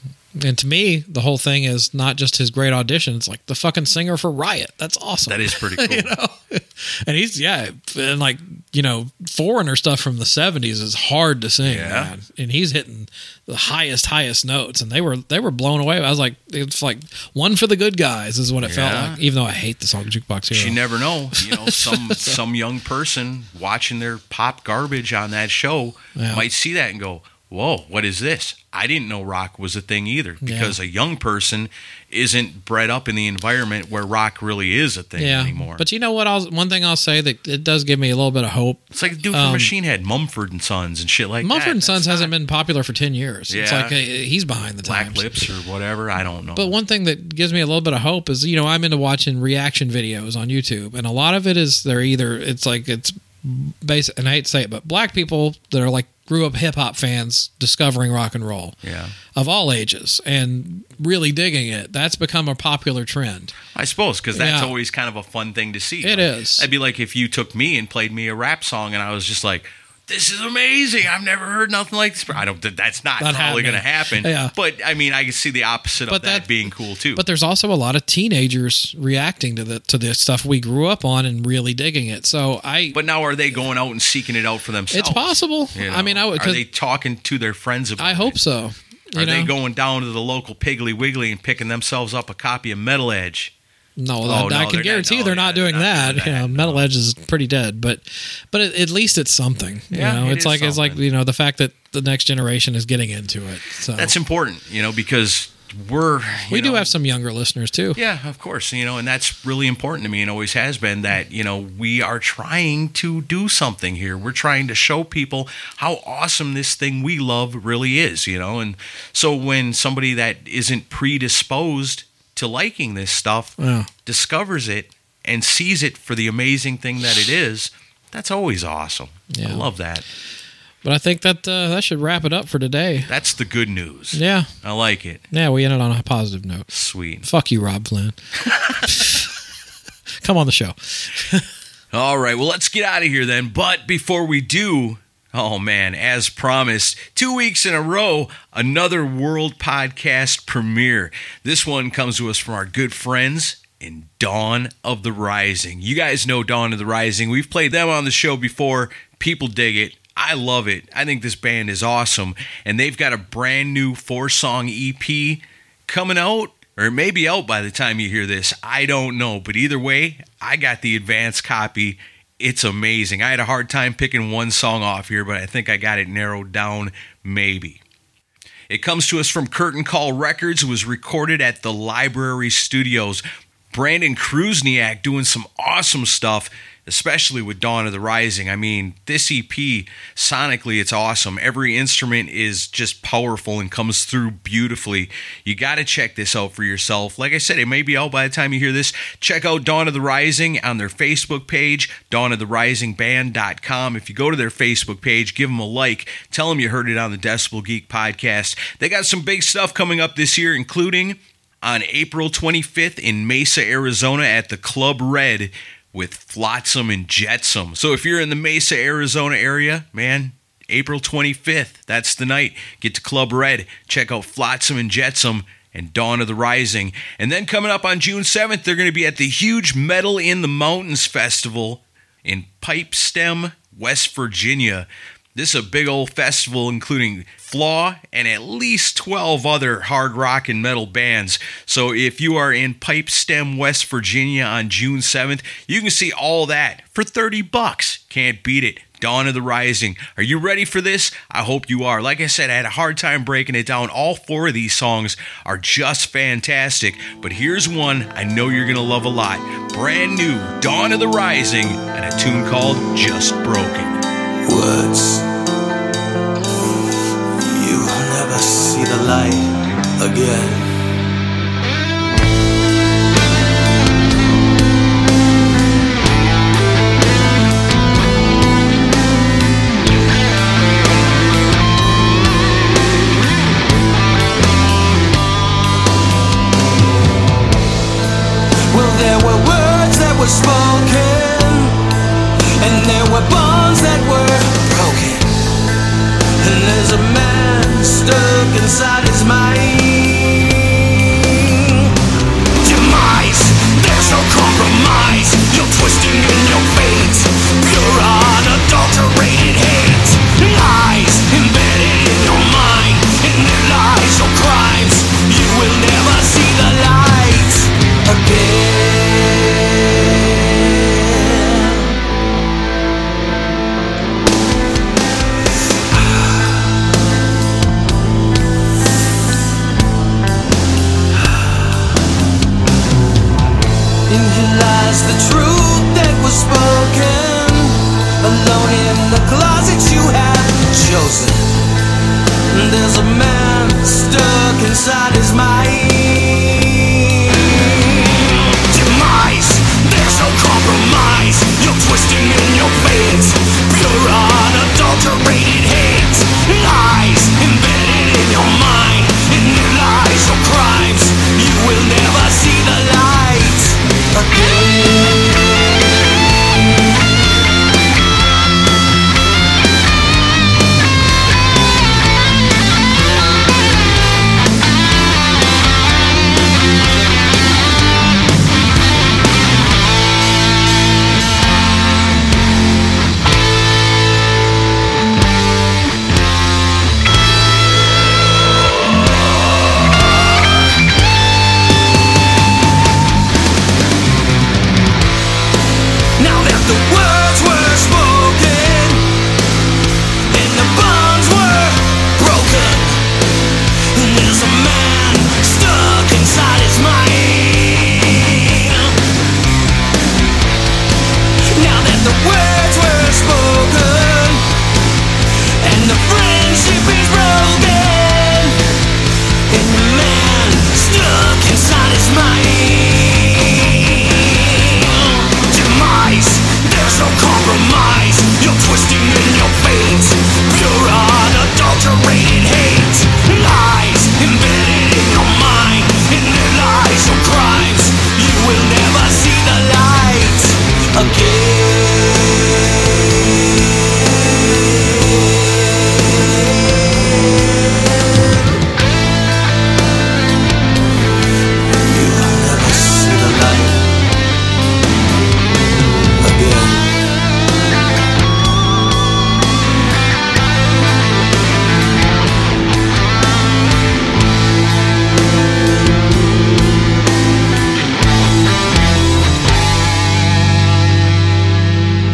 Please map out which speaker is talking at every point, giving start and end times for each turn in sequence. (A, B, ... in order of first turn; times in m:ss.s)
0:00.4-0:20.8 A
0:05.3-0:06.1 B
0:11.6-0:12.1 B
0:18.6-0:19.2 B
0:20.5-0:35.8 B
0:21.4-0:22.4 A
0:26.1-0:26.4 A
0:30.4-0:30.7 A
0:35.2-0:39.7 A
0:38.9-0:42.3 B
0:41.4-0:45.2 A
0:43.5-0:44.0 B
0:44.8-0:46.7 B
0:46.5-0:58.8 A
0:58.8-0:59.2 B
0:59.3-1:03.6 A
1:03.7-1:17.2 B
1:04.3-1:04.7 A
1:06.0-1:06.7 A
1:13.2-1:14.5 A
1:16.1-1:16.5 A
1:17.1-1:23.0 A
1:22.9-1:28.4 B
1:24.9-1:26.6 A
1:28.0-1:29.5 A
1:29.2-1:33.5 B
1:34.0-1:44.1 A
1:34.2-1:36.8 B
1:39.9-1:41.0 B
1:43.9-1:46.9 B
1:46.5-1:48.0 A
1:47.9-2:10.0 B
2:03.6-2:03.9 A
2:09.3-2:09.7 A
2:10.8-2:13.1 A
2:13.1-2:15.2 B
2:14.1-2:14.5 A
2:15.3-2:16.7 A
2:16.7-2:17.2 B
2:17.2-2:18.2 A
2:18.4-2:18.9 B
2:18.8-2:19.3 A
2:20.2-2:21.5 A
2:21.9-2:57.8 B
2:58.7-4:24.0 B
4:24.4-4:25.2 C
4:27.4-4:30.8 C
4:48.7-4:51.8 C
4:52.6-4:55.3 C
4:56.4-5:01.9 C
5:02.6-5:22.0 C
5:34.1-5:41.6 C
5:42.5-6:05.4 C
6:36.2-6:39.0 C
6:40.3-6:43.1 C
6:43.9-6:49.0 C
6:51.5-6:54.4 C
6:55.6-6:58.6 C
6:59.5-7:22.4 C
7:31.8-7:33.9 C
7:36.2-7:36.9 C